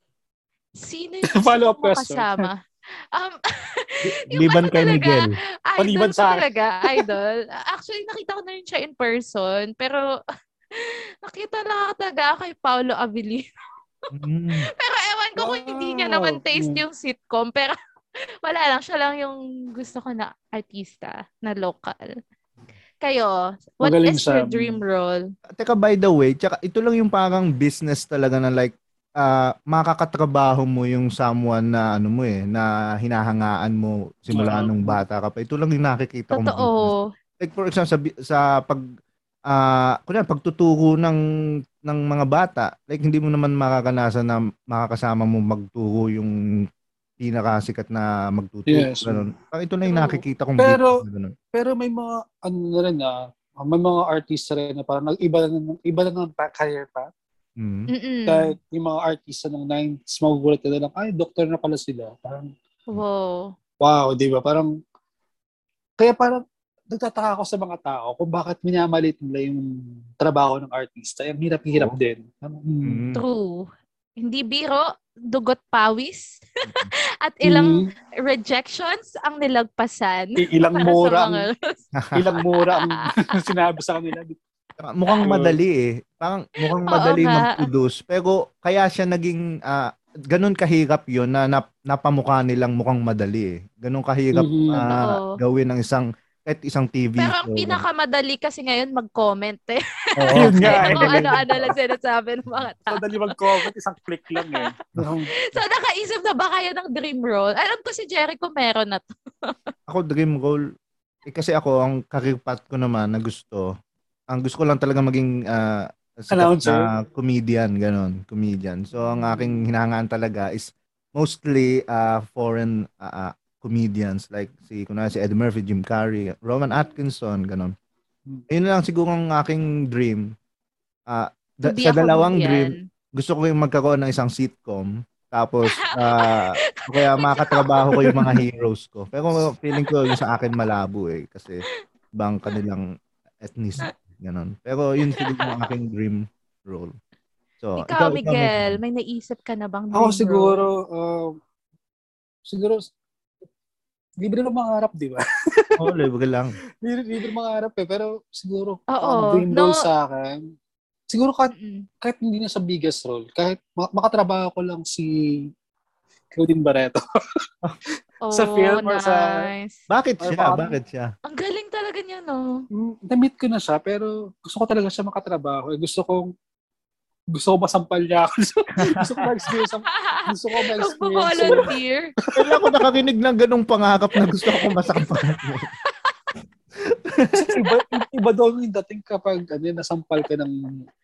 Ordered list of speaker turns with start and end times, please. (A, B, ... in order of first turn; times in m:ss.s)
0:00.8-0:02.6 A
0:01.3-0:02.5 B
0:03.1-0:10.1 A
0:04.0-0:05.3 C
0:05.8-0:07.1 B
0:10.8-0:13.4 A
0:14.1-0:14.7 C
0:14.8-0:17.8 A
0:15.4-0:16.8 B
0:18.4-0:22.2 A
0:23.0-0:25.2 A
0:23.8-0:24.8 B
0:25.6-0:38.8 C
0:34.3-0:35.0 B
0:36.3-0:37.1 A
0:39.5-0:41.2 C
0:41.8-0:46.3 C
0:47.2-0:51.3 C
0:48.7-0:49.2 B
0:49.8-0:50.2 A
0:50.6-0:51.0 B
0:51.5-0:57.1 B
0:57.6-0:57.9 C
0:57.9-0:58.5 A
0:58.3-1:02.5 B
1:02.9-1:03.5 A
1:03.8-1:04.7 B
1:06.0-1:09.7 B
1:10.2-1:13.0 B
1:12.8-1:13.2 C
1:13.1-1:21.8 A
1:17.4-1:17.9 B
1:20.4-1:21.5 B
1:22.1-1:24.4 B
1:22.5-1:23.2 A
1:24.8-1:37.8 C
1:25.2-1:25.6 B
1:26.9-1:27.6 A
1:34.3-1:34.9 B
1:35.0-1:35.4 A
1:37.2-1:43.7 A
1:40.2-1:41.2 C
1:40.3-1:41.7 B
1:42.9-1:45.3 B
1:44.3-1:44.7 A
1:45.5-1:49.5 A
1:49.9-1:50.6 C
1:51.2-1:53.7 C
1:54.3-2:07.7 C
1:56.3-1:56.9 B
1:59.0-1:59.6 A
2:08.5-2:10.2 C
2:11.1-2:21.6 C
2:11.7-2:12.8 A
2:15.8-2:17.9 A
2:18.0-2:18.4 B
2:22.2-2:22.8 C
2:23.4-2:26.9 C
2:25.1-2:25.5 A
2:27.6-2:28.8 C
2:27.8-2:30.6 A
2:29.9-2:31.4 B
2:32.4-2:32.9 B
2:34.2-2:35.9 B
2:35.8-2:36.6 C
2:36.8-2:40.4 B
2:38.9-2:39.8 A
2:41.1-2:45.5 B
2:41.5-2:41.8 A
2:46.3-2:47.0 B
2:48.2-2:49.8 A
2:48.3-2:49.4 B
2:49.9-2:51.1 C
2:50.2-2:50.8 B
2:51.3-2:52.6 A
2:52.7-2:56.3 B
2:57.3-3:01.7 B
2:58.8-2:59.2 C
2:59.9-3:02.1 A
3:02.3-3:05.7 C
3:02.4-3:02.6 B
3:06.9-3:07.5 C
3:07.3-3:10.5 B